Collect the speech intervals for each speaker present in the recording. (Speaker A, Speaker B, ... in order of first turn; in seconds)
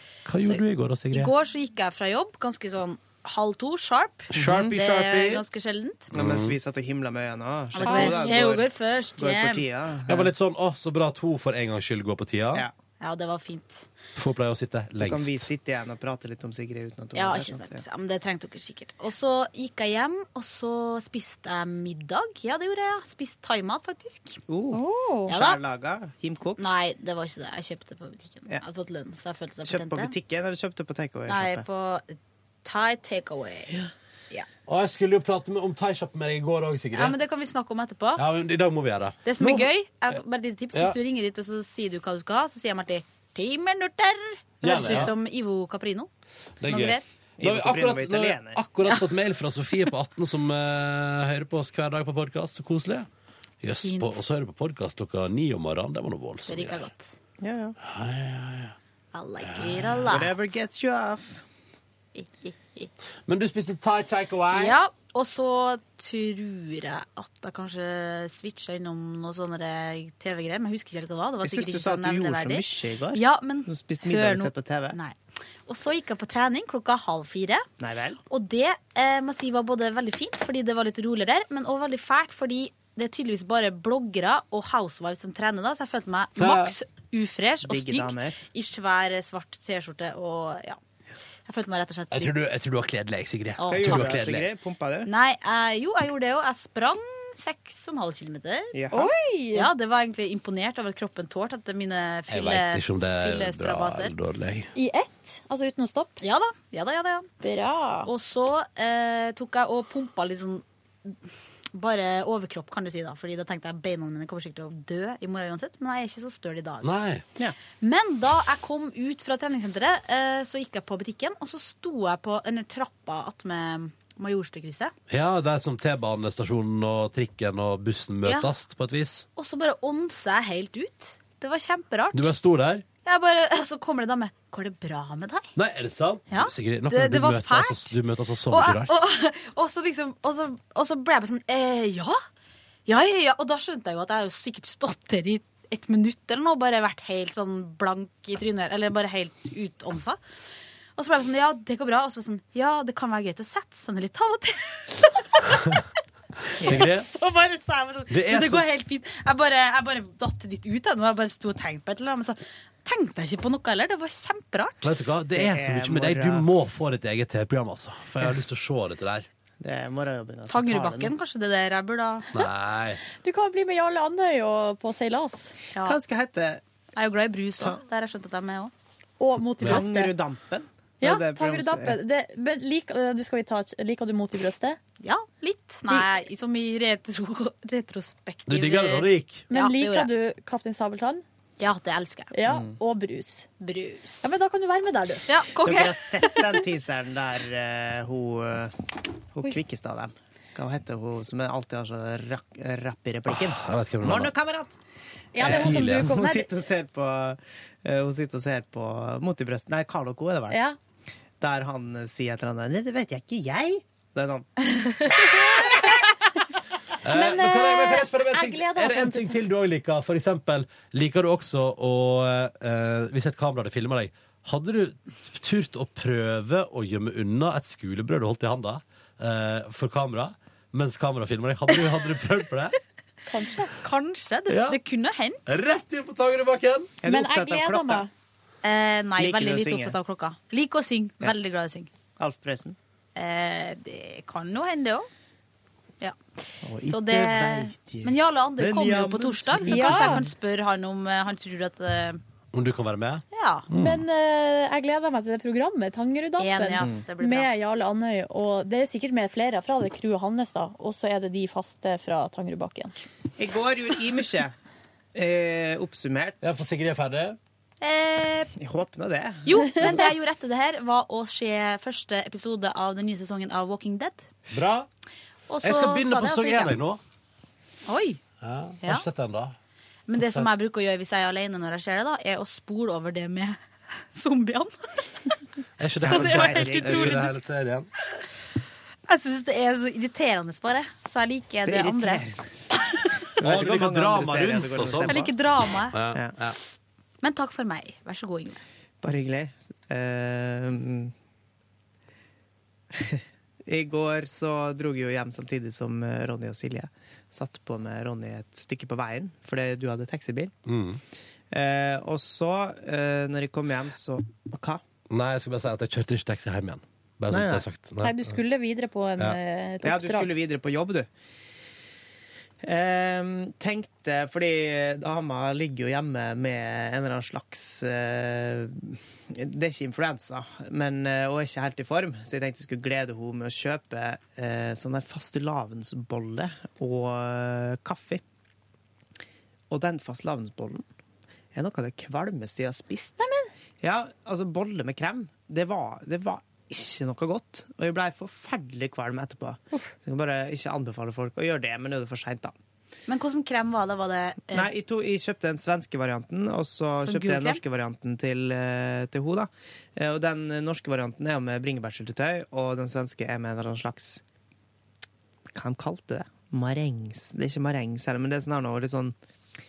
Speaker A: 0.2-1.3, 4.3-5.4, 6.1-6.5, 10.1-12.7, 14.2-15.5, 34.7-37.2, 38.1-40.1, 44.6-45.1, 46.6-53.1, 53.6-56.9, 57.8-58.7, 59.4-60.0, 63.3-64.8, 86.3-86.7, 92.1-94.5, 102.3-104.7, 116.8-117.2, 125.1-129.2, 132.1-132.8, 135.6-138.9, 156.6-157.1, 158.1-158.7, 164.8-169.2, 172.3-173.0, 188.5-189.4, 203.3-204.3, 205.4-206.1, 217.0-232.7, 234.5-234.8, 235.4-236.9, 252.5-254.0, 266.4-267.4, 274.5-274.9, 275.6-277.0, 278.4-279.6, 280.1-280.5, 285.8-287.9, 293.4-295.3, 295.9-296.6, 310.6-311.0, 315.1-318.3
Speaker B: 0.4-6.1, 7.7-9.7, 13.0-13.9, 17.1-24.4, 25.3-25.6, 26.6-30.1, 31.3-33.7, 36.9-38.2, 39.2-46.1, 46.6-47.0, 53.8-54.2, 56.5-57.1, 59.1-60.5, 62.1-62.9, 64.5-75.1, 75.7-77.6, 78.3-90.8, 91.5-92.3, 93.6-94.2, 95.0-98.7, 99.5-104.1, 106.2-107.3, 108.0-111.1, 111.7-116.9, 117.8-124.9, 128.2-128.5, 129.3-132.3, 133.0-135.5, 136.3-142.2, 142.9-150.2, 150.9-155.6, 156.6-164.9, 170.5-172.3, 176.9-178.7, 185.0-190.1, 191.6-192.3, 193.6-194.3, 195.3-196.5, 233.8-235.6, 238.6-241.9, 243.2-245.1, 246.8-252.2, 253.3-253.7, 256.4-257.5, 267.8-268.5, 269.4-274.3, 275.5-276.8, 277.9-278.2, 280.1-283.6, 284.1-285.0, 286.0-287.4, 289.1-292.2, 295.0-296.0, 297.2-298.6, 353.1-354.7, 357.0-357.6
Speaker C: 4.3-4.7, 6.1-10.3, 15.0-17.8, 24.5-26.6, 29.6-31.6, 44.8-45.1, 47.4-48.6, 57.4-57.8, 60.1-61.4, 71.4-75.0, 77.8-78.2, 87.7-88.4, 93.7-95.1, 98.7-99.1, 156.6-156.9, 165.3-166.5, 169.6-171.1, 175.8-176.6, 179.6-182.0, 192.5-192.7, 195.6-204.8, 205.3-210.6, 211.4-215.9, 237.0-238.1, 239.2-239.9, 242.2-242.8, 246.6-250.3, 263.4-264.5, 265.1-266.4, 268.6-270.1, 286.0-287.3, 291.6-292.6, 293.4-295.3, 299.0-301.1, 302.9-310.5, 311.5-314.8, 317.3-317.6, 319.8-321.1, 322.6-338.2, 339.7-340.8, 341.5-343.2, 343.8-352.5, 354.5-364.2, 365.5-369.1
Speaker D: 7.8-8.4, 24.7-25.3, 98.9-99.7, 104.7-106.2, 107.4-108.1, 173.1-175.5, 179.2-180.1, 181.0-184.8, 189.5-191.2, 192.3-193.5, 194.2-195.2, 205.3-206.5, 210.5-210.8, 217.1-219.4, 233.3-233.7, 237.1-238.1, 249.7-250.2, 253.8-262.9, 318.0-320.4, 343.2-343.5